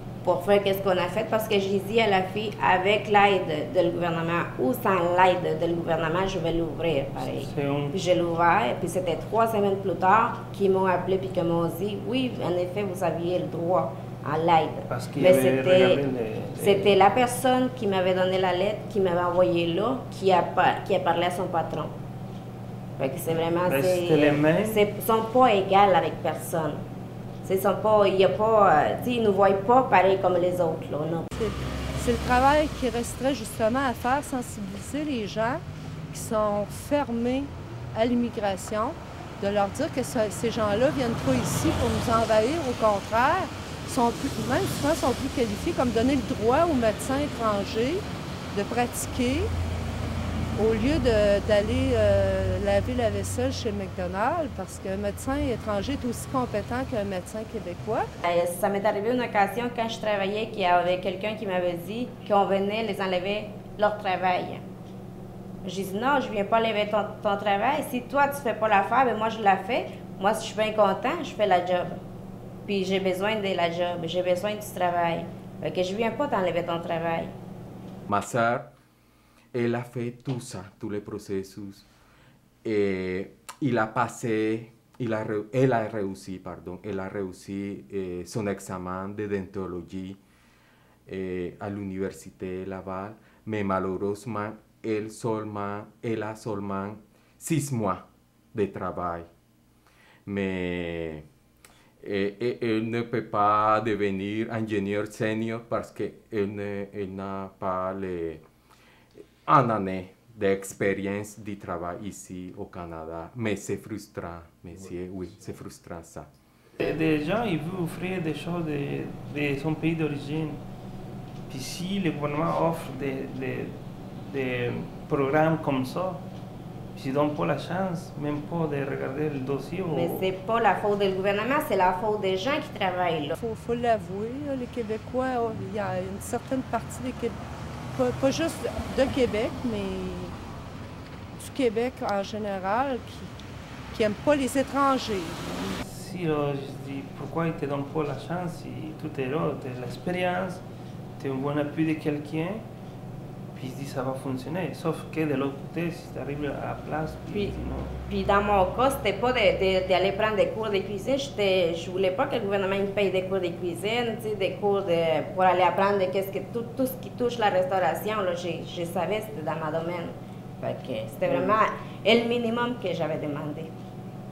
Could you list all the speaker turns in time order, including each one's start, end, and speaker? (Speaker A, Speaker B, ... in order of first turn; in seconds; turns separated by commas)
Speaker A: 0.2-16.0, Speaker B: 7.2-8.0, Speaker B: 14.9-17.0, Speaker A: 16.6-21.9, Speaker A: 23.0-26.8, Speaker B: 23.6-24.9, Speaker A: 27.4-31.3, Speaker C: 31.4-49.5, Speaker C: 50.5-58.1, Speaker A: 58.2-64.6, Speaker A: 65.6-72.0, Speaker A: 72.7-77.3, Speaker D: 78.1-78.7, Speaker D: 79.5-81.8, Speaker D: 82.6-90.2, Speaker D: 91.1-99.3, Speaker D: 100.3-101.2, Speaker D: 102.0-108.4, Speaker D: 109.5-116.3, Speaker B: 116.8-120.6, Speaker B: 121.5-126.2, Speaker B: 127.0-130.3, Speaker A: 129.9-133.4, Speaker C: 133.4-137.4, Speaker C: 137.9-140.3, Speaker C: 141.4-143.3, Speaker C: 143.9-145.4, Speaker B: 145.6-150.6, Speaker B: 151.2-152.7, Speaker B: 153.6-157.9, Speaker A: 157.3-173.7